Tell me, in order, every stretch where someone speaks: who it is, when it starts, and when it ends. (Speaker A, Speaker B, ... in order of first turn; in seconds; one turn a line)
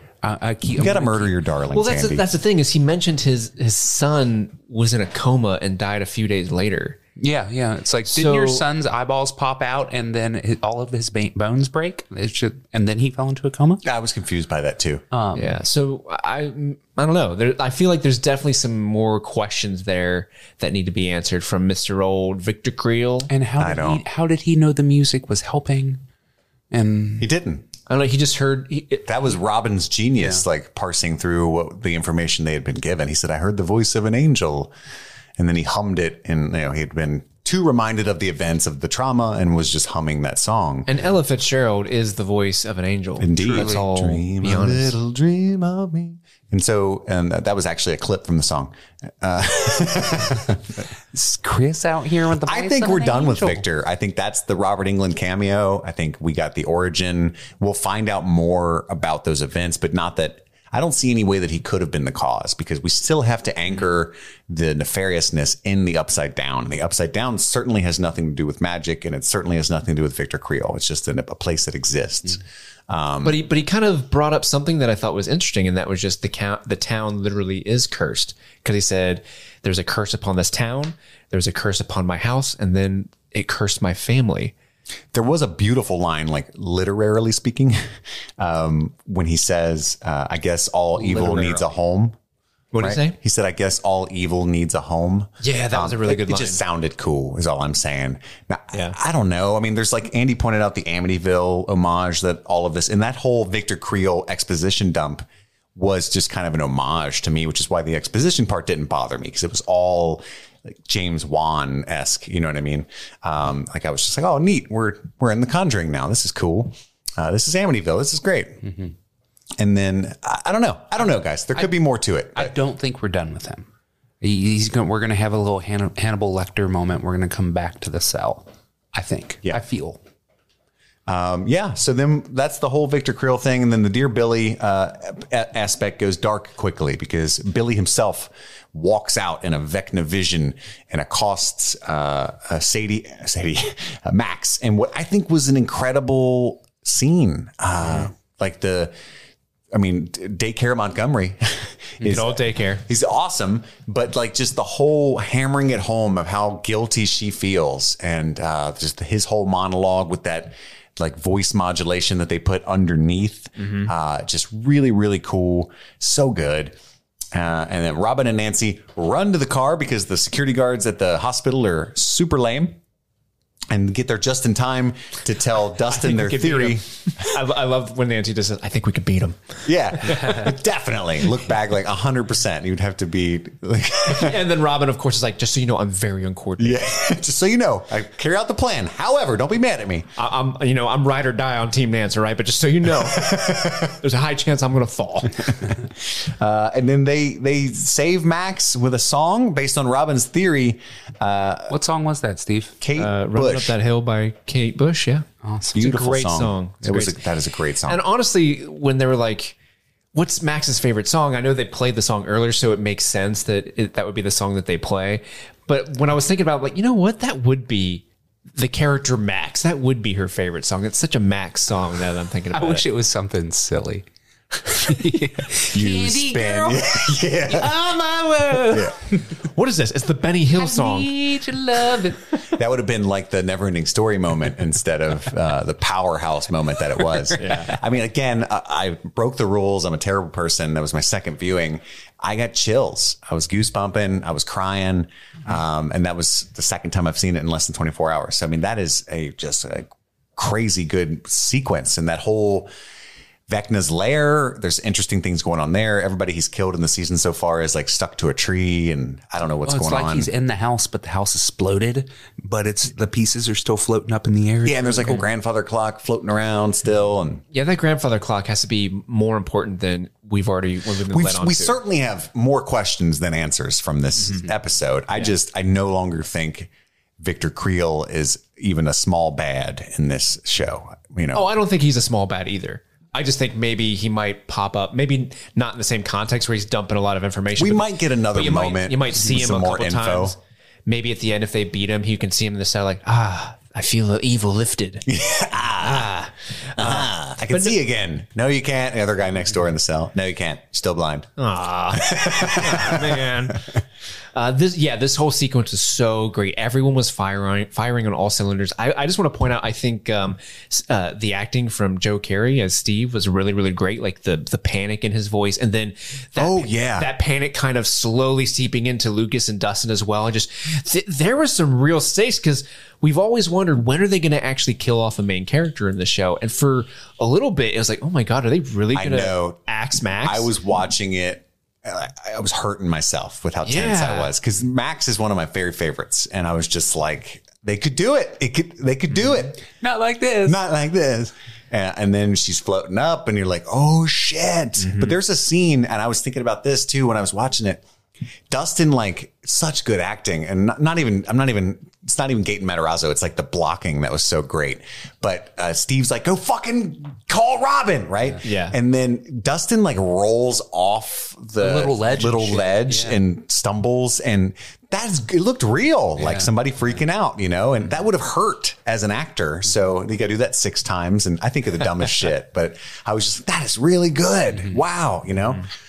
Speaker A: 0.2-1.3
Speaker B: 0.8-2.2
Speaker C: 1.7-7.0
Speaker A: 7.2-13.8
Speaker C: 8.1-8.6
Speaker B: 13.8-15.0
Speaker A: 15.1-15.6
Speaker C: 15.3-23.3
Speaker A: 23.3-26.0
Speaker B: 23.6-24.0
Speaker A: 26.7-27.3
Speaker B: 27.2-27.6
Speaker C: 27.9-29.1
Speaker B: 29.1-34.7
Speaker B: 35.4-40.9
Speaker C: 40.9-44.9
Speaker B: 43.2-50.7
Speaker A: 43.4-43.8
Speaker A: 51.1-53.6
Speaker B: 52.4-73.4
Speaker C: 73.2-84.5
Speaker B: 85.1-92.2
Speaker A: 91.0-91.6
Speaker C: 92.7-93.2
Speaker B: 92.8-105.2
Speaker C: 95.4-96.6
Speaker B: 105.8-118.7
Speaker B: 119.6-122.5
Speaker A: 122.3-123.7
Speaker A: 124.2-130.0
Speaker B: 131.1-148.9
Speaker B: 149.7-166.7
Speaker C: 152.0-152.8
Speaker B: 167.3-172.8
Speaker B: 173.7-176.8
Speaker C: 175.9-179.6
Speaker B: 179.6-184.4
Speaker C: 184.0-186.9
Speaker B: 186.6-190.1
Speaker C: 190.2-195.5
Speaker B: 193.0-194.0
Speaker B: 195.7-201.8
Speaker A: 201.7-202.8
Speaker B: 202.8-203.7
Speaker C: 202.9-205.2
Speaker A: 205.4-205.8
Speaker B: 205.7-208.0
Speaker C: 205.8-207.2
Speaker C: 207.8-209.6
Speaker C: 210.1-222.8
Speaker A: 222.5-229.2
Speaker B: 225.7-227.7
Speaker B: 228.7-228.9
Speaker C: 229.5-231.1
Speaker A: 230.5-232.3
Speaker B: 232.5-252.7
Speaker C: 237.4-237.7
Speaker B: 253.5-260.3
Speaker A: 259.6-265.2
Speaker B: 264.6-267.4
Speaker C: 267.5-271.8
Speaker B: 271.1-281.4
Speaker C: 281.3-295.1
Speaker B: 287.6-290.4
Speaker B: 295.1-301.3
Speaker C: 295.8-296.1
Speaker C: 296.7-297.8
Speaker C: 301.4-303.7
Speaker B: 301.9-303.3
Speaker C: 304.3-330.5
Speaker B: 316.4-317.1
Speaker B: 328.9-329.6
Speaker B: 330.2-339.6
Speaker C: 333.6-334.3
Speaker A: 339.8-340.6
Speaker B: 340.4-347.8
Speaker C: 344.8-345.1
Speaker B: 348.5-375.7
Speaker C: 358.4-358.8
Speaker A: 361.6-363.2
Speaker A: 366.2-366.5